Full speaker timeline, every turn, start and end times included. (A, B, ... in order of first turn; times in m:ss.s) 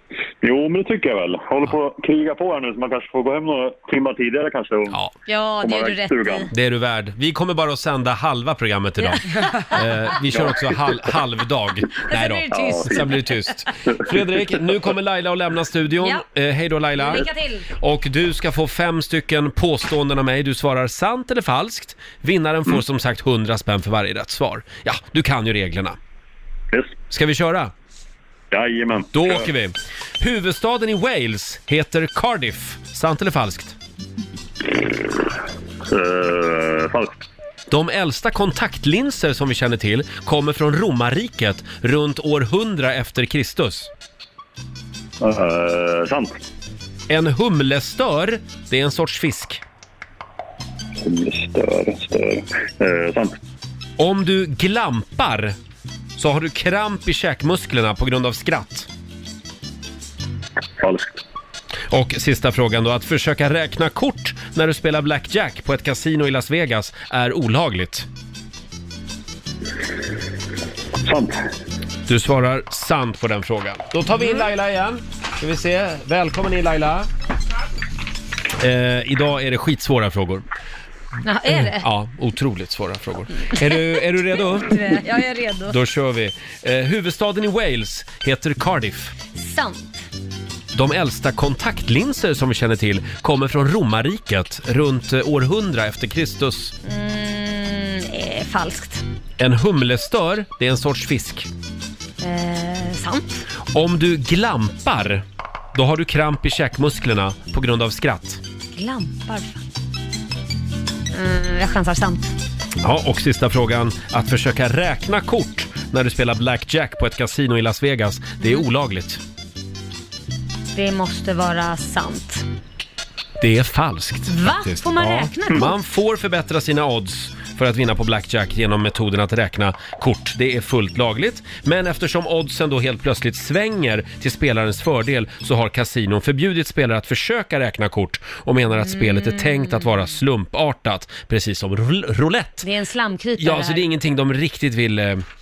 0:00.4-0:05.0 A
0:05.3-0:06.5 B
0:05.6-0:06.5 A
0:06.5-0:17.3 C
0:09.0-0:10.1 B
0:10.3-0:10.6 A
0:12.1-0:13.3 B
0:12.5-0:13.1 A
0:17.0-0:17.7 B
0:17.8-0:26.0 C
0:27.1-0:27.7 C
0:28.5-0:29.5 A
0:29.1-0:33.8 C
0:35.9-0:37.2 A
0:37.7-0:43.9 C
0:45.2-0:46.4 A
0:47.1-0:49.6 C
0:51.0-0:53.4 A
0:54.0-0:55.6 C
0:56.2-0:58.9 C
1:00.8-1:01.2 A
1:01.9-1:08.1 C
1:11.0-1:11.4 A
1:12.1-1:17.1 C
1:18.6-1:20.4 C
1:21.2-1:21.8 B
1:21.5-1:24.9 C
1:23.6-1:25.8 B
1:25.7-1:29.1 C
1:29.4-1:30.1 B
1:30.7-1:36.7 C
1:36.8-1:39.0 B
1:39.4-1:41.5 C
1:42.2-1:43.4 B
1:43.7-1:48.4 C
1:48.7-1:49.6 B
1:51.1-1:52.3 B
1:52.8-1:59.2 C
2:00.7-2:02.4 B
2:03.4-2:22.7 C
2:04.3-2:05.7 B
2:18.8-2:20.0 B
2:22.6-2:23.9 B
2:23.4-2:25.2 C